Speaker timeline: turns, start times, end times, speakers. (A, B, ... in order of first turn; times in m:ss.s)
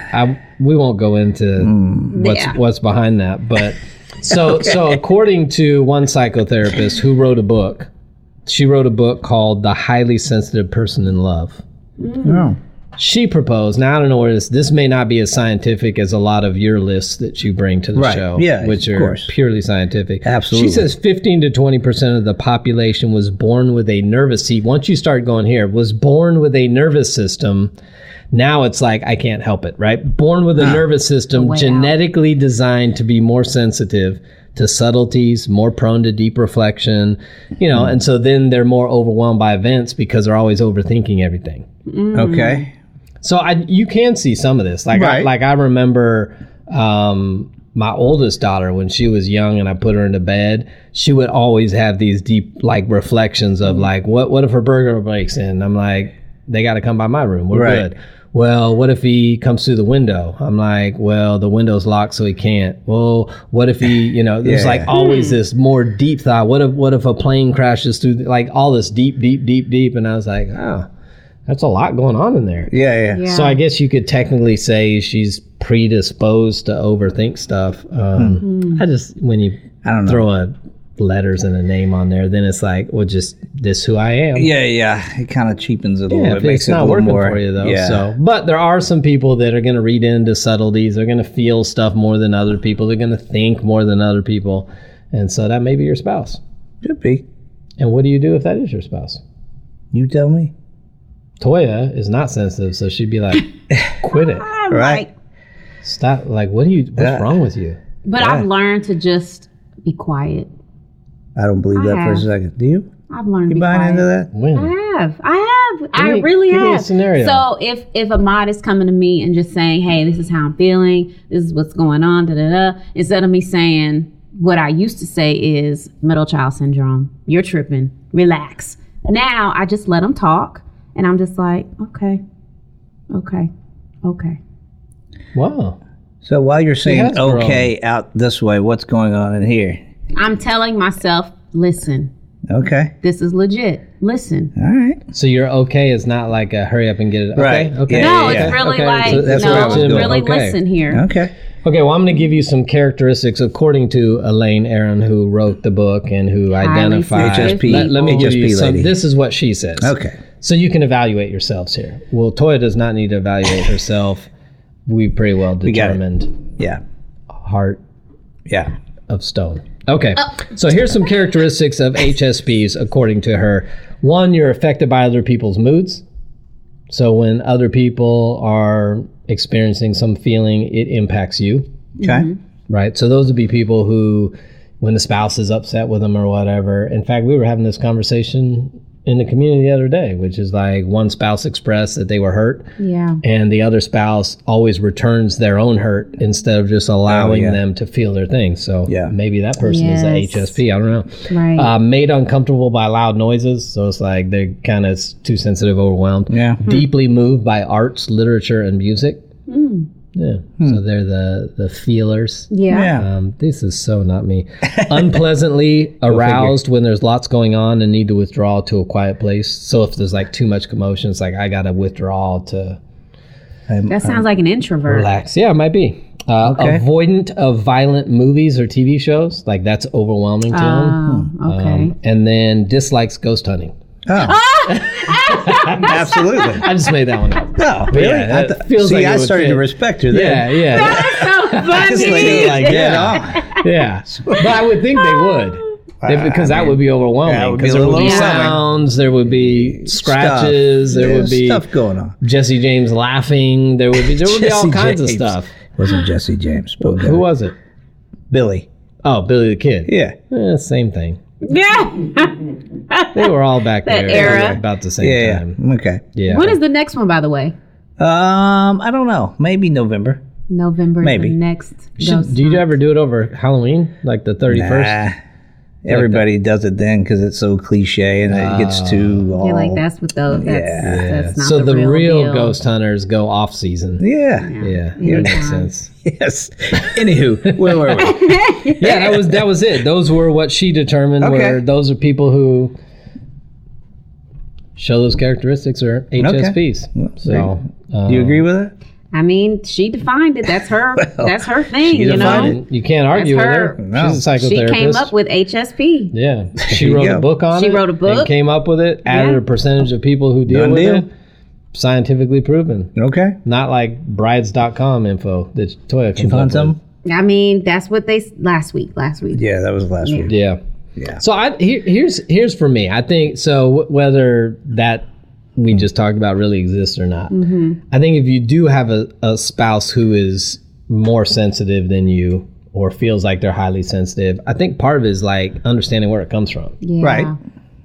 0:00.1-0:07.9 A
0:01.6-0:02.1 B
0:02.1-0:02.6 C
0:08.4-0:11.6 A
0:12.0-0:12.5 C
0:12.2-0:12.6 B
0:13.0-0:27.7 A
0:18.0-0:19.3 B
0:20.2-0:20.9 B
0:28.3-0:41.7 A
0:31.3-0:31.9 C
0:41.9-0:42.6 C
0:42.1-0:42.7 B
0:43.2-1:10.9 A
0:44.9-0:45.3 B
0:57.5-0:57.9 B
1:04.4-1:04.9 B
1:04.9-1:05.4 C
1:11.4-1:12.7 A
1:12.7-1:13.2 B
1:13.1-1:13.6 C
1:13.2-1:24.5 A
1:18.4-1:18.8 C
1:19.8-1:20.2 B
1:24.3-1:28.0 B
1:26.1-1:36.4 A
1:36.8-1:37.2 B
1:37.8-1:39.2 A
1:39.9-1:40.5 B
1:41.4-1:43.4 A
1:44.0-1:44.5 A
1:44.1-1:45.1 C
1:44.7-1:45.0 B
1:45.8-1:47.8 A
1:47.0-1:47.3 B
1:48.0-1:50.5 C
1:48.2-1:48.4 B
1:51.4-1:52.9 B
1:51.7-1:52.2 C
1:53.1-2:12.2 C
1:53.5-1:54.3 B
1:54.3-1:54.7 A
1:55.9-1:57.4 A
2:13.1-2:13.5 C
2:14.0-2:14.4 C
2:15.3-2:15.8 A
2:16.2-2:19.8 B
2:16.8-2:17.7 A
2:20.1-2:22.1 C
2:22.5-2:22.9 B
2:23.0-2:24.5 C
2:24.6-2:25.0 B
2:25.1-2:30.6 A
2:27.4-2:30.2 B
2:27.9-2:31.0 C
2:30.9-2:31.3 B
2:31.6-2:44.3 A
2:36.5-2:38.2 C
2:37.2-2:38.9 B
2:39.8-2:40.2 B
2:44.9-2:46.4 A
2:45.6-2:46.0 B
2:47.3-2:47.8 A
2:49.1-2:56.0 A
2:56.9-3:01.7 A
3:02.0-3:02.3 B
3:02.0-3:02.4 C
3:02.7-3:12.6 A
3:12.8-3:13.2 C
3:13.2-3:29.2 A
3:17.1-3:17.6 B
3:18.9-3:19.1 B
3:19.6-3:20.6 C
3:21.3-3:21.7 C
3:26.3-3:26.6 B
3:29.5-3:29.9 C
3:30.1-3:42.8 A
3:32.5-3:32.9 C
3:32.7-3:33.1 B
3:34.6-3:35.0 B
3:36.1-3:36.6 B
3:43.7-3:44.2 B
3:43.9-3:45.1 C
3:44.9-3:53.7 A
3:46.4-3:46.8 B
3:50.5-3:51.9 C
3:54.0-3:54.4 B
3:54.2-3:56.7 C
3:54.7-3:55.9 A
3:55.7-3:56.6 B
3:56.6-4:11.6 A
3:57.6-4:03.4 B
4:00.7-4:03.6 C
4:04.1-4:04.6 B
4:05.1-4:05.4 C
4:06.0-4:08.6 B
4:07.9-4:08.5 C
4:09.3-4:12.1 B
4:12.2-4:15.5 A
4:14.0-4:17.2 B
4:16.8-4:17.5 A
4:18.3-4:18.6 B
4:19.0-4:21.2 A
4:19.9-4:20.2 B
4:21.4-4:23.3 C
4:23.1-4:25.6 A
4:23.8-4:24.6 C
4:24.1-4:26.0 B
4:26.1-4:26.6 A
4:26.3-4:27.5 C
4:28.0-4:30.2 B
4:30.5-4:32.6 C
4:31.0-4:31.4 B
4:32.0-4:35.1 A
4:34.5-4:35.2 B
4:35.8-4:41.0 B
4:35.9-4:36.2 A
4:38.3-4:39.3 A
4:39.3-4:42.6 C
4:40.8-4:44.0 A
4:44.0-4:45.4 B
4:44.4-4:45.7 C
4:44.6-4:45.9 A
4:46.0-4:49.2 B
4:47.9-4:48.9 C
4:48.8-4:52.7 A
4:51.2-4:51.6 B
4:54.8-4:58.4 A
4:56.2-4:57.5 B
4:58.1-4:58.7 B
4:59.1-5:02.6 C
5:01.0-5:02.5 B
5:02.0-5:05.1 A
5:03.1-5:03.8 C
5:03.8-5:04.2 B
5:04.3-5:06.1 C
5:06.1-5:11.1 A
5:06.6-5:07.2 B
5:07.5-5:08.3 C
5:09.1-5:09.4 C
5:10.5-5:11.0 B
5:11.7-5:12.9 A
5:13.0-5:13.4 B
5:13.4-5:16.8 A
5:16.2-5:16.8 B
5:17.0-5:19.4 C
5:19.3-5:20.3 B
5:20.0-5:20.3 C
5:20.3-5:20.6 A
5:21.2-5:25.0 A
5:25.6-5:27.3 A
5:27.3-5:27.8 C
5:27.9-5:36.8 A
5:36.8-5:37.4 C
5:37.0-5:37.3 B